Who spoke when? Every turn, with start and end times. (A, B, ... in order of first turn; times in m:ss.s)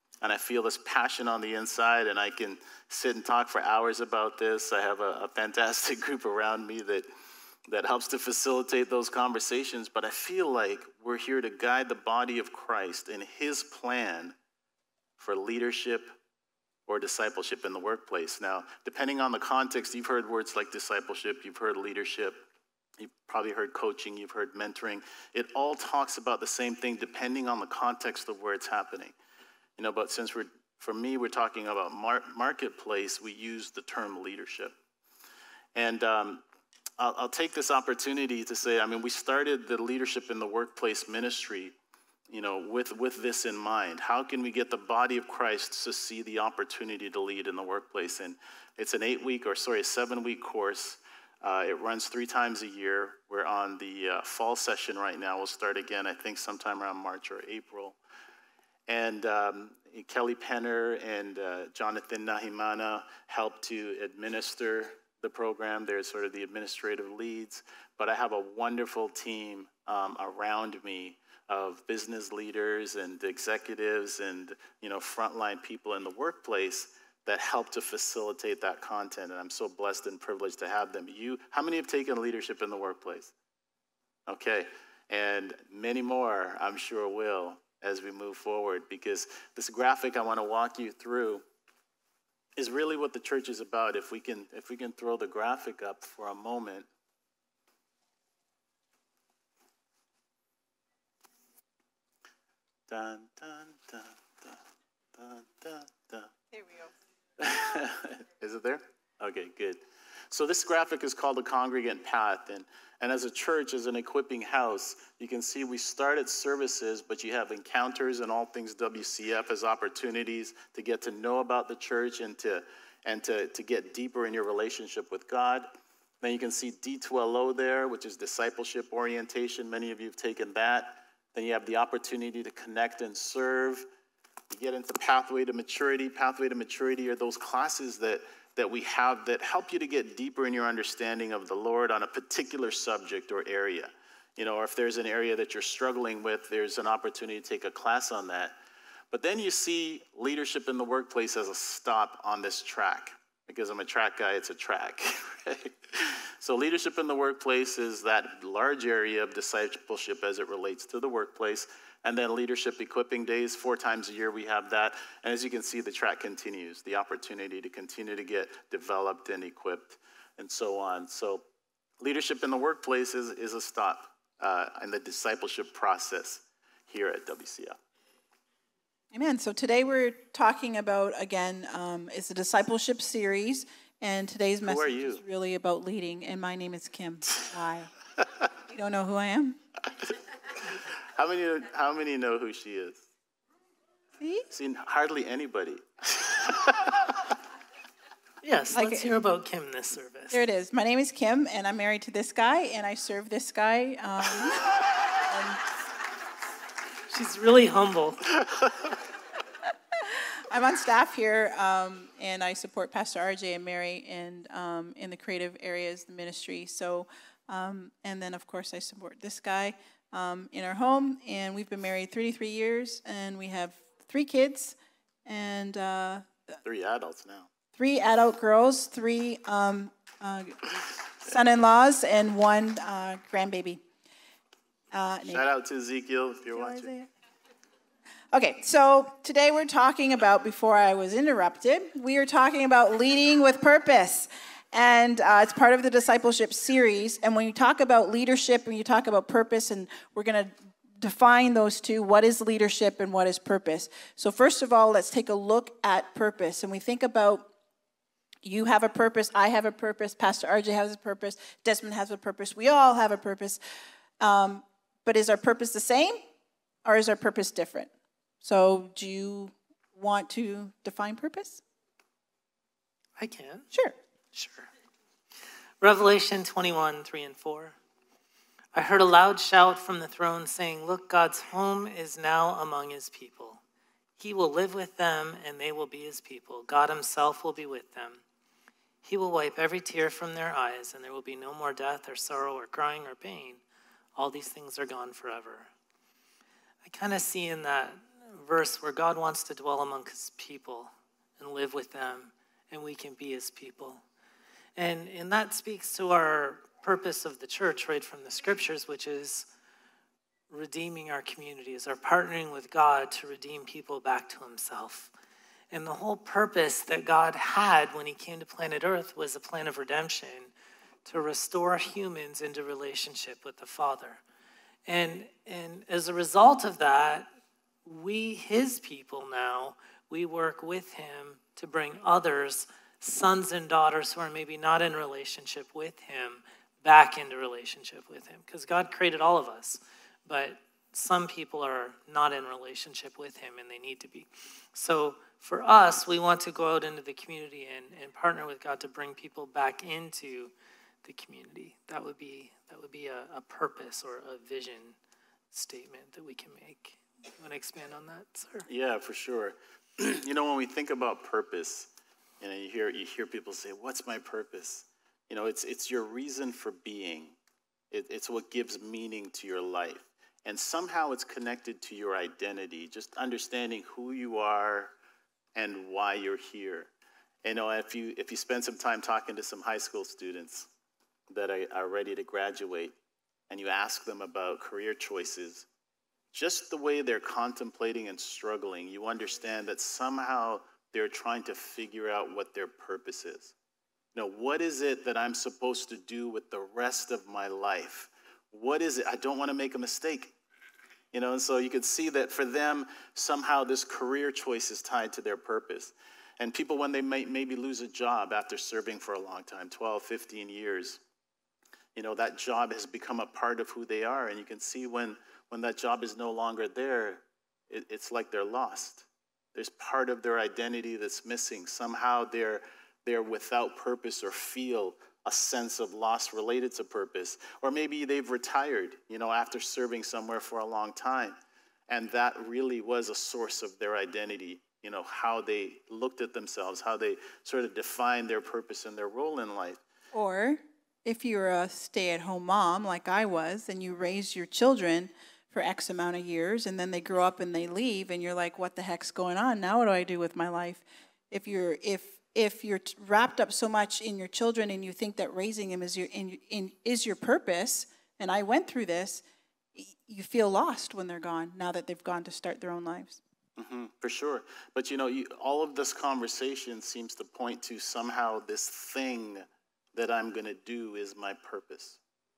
0:00.2-0:07.0 A
0:07.7-0:14.3 A
0:15.2-0:16.1 A
0:16.9-0:22.4 A
0:23.0-0:29.1 A
0:29.8-0:34.7 A
0:35.7-0:36.4 A
0:37.0-0:41.7 A
0:42.3-0:58.0 A
0:58.9-1:23.3 A
1:24.3-1:31.4 A
1:32.6-1:36.9 A
1:42.9-1:44.6 A
1:45.2-1:46.3 A
1:46.5-1:46.9 B
1:47.4-1:49.8 A
1:50.3-2:05.7 A
2:06.2-2:13.8 A
2:14.5-2:28.6 A
2:29.1-2:51.4 A
2:52.0-2:57.8 A
2:59.1-3:07.9 B
3:04.6-3:05.2 A
3:08.7-3:09.6 B
3:11.1-3:13.0 A
3:14.2-3:14.4 B
3:14.5-3:17.2 A
3:18.4-3:20.4 C
3:18.7-3:19.1 B
3:20.3-3:25.6 B
3:27.1-3:28.3 C
3:30.0-3:46.6 B
3:46.6-3:47.5 A
3:47.7-3:50.7 B
3:51.2-3:53.8 B
3:54.9-3:55.5 B
3:55.2-3:56.9 A
3:56.5-3:57.1 B
3:58.3-4:17.5 B
4:18.4-4:23.6 B
4:24.2-4:26.2 B
4:26.8-4:27.9 B
4:28.4-4:31.6 B
4:33.2-4:33.7 C
4:34.3-4:34.7 C
4:35.8-4:37.8 C
4:38.7-4:43.6 C
4:44.2-4:48.2 C
4:49.0-4:53.6 C
4:54.2-4:55.7 C
4:56.8-5:04.0 C
5:04.8-5:09.5 C
5:10.5-5:15.1 C
5:15.7-5:20.5 C
5:21.0-5:24.2 C
5:24.9-5:27.3 C
5:27.8-5:50.5 C
5:51.0-5:55.0 C
5:55.5-5:58.7 C
5:58.7-6:01.9 A
6:02.4-6:07.4 A
6:07.9-6:14.9 A
6:15.5-6:16.9 A
6:17.4-6:20.7 A
6:21.3-6:22.9 A
6:23.5-6:25.7 A
6:26.3-6:33.5 A
6:34.1-6:40.3 A
6:41.1-6:51.0 A
6:52.0-7:11.4 A
7:11.9-7:19.8 A
7:20.1-7:39.2 B
7:39.7-7:43.2 B
7:43.6-7:52.0 A